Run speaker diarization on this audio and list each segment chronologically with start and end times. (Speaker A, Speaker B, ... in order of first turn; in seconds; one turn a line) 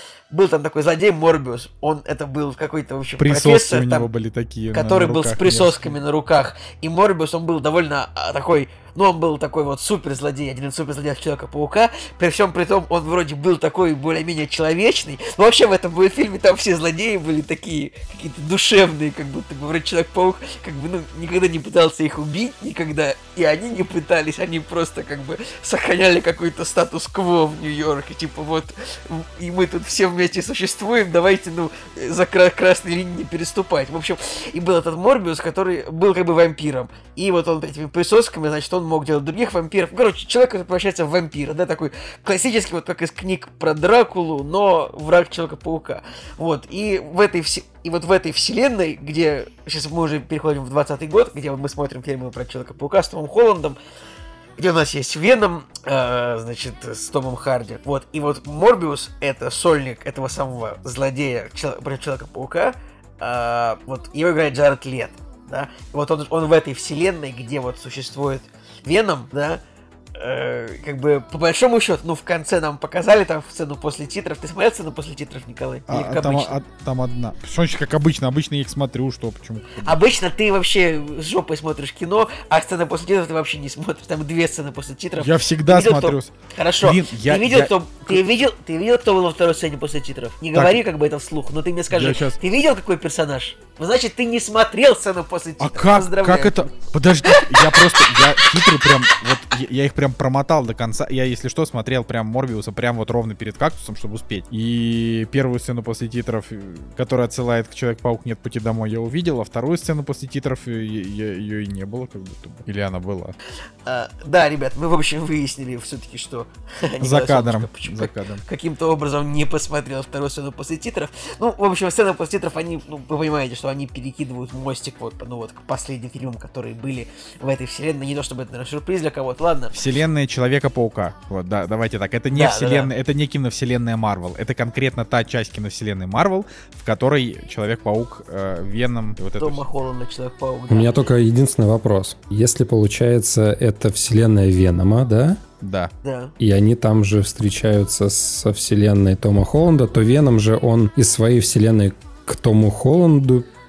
Speaker A: 0.3-4.1
Speaker B: 3.2-6.0
Speaker A: 4.7-53.8
Speaker A: 54.6-69.6
Speaker A: 70.2-76.6
Speaker B: 75.9-80.1
Speaker A: 79.8-96.7
Speaker B: 85.2-88.2
Speaker B: 90.5-90.8
Speaker B: 91.9-92.4
Speaker B: 95.6-113.3
Speaker A: 97.3-98.5
Speaker A: 113.8-129.8
Speaker B: 117.0-118.4
Speaker B: 129.7-139.7
Speaker A: 132.3-132.9
Speaker A: 139.4-140.9
Speaker C: 140.7-145.4
Speaker B: 145.6-145.9
Speaker A: 146.0-146.3
Speaker C: 146.4-153.5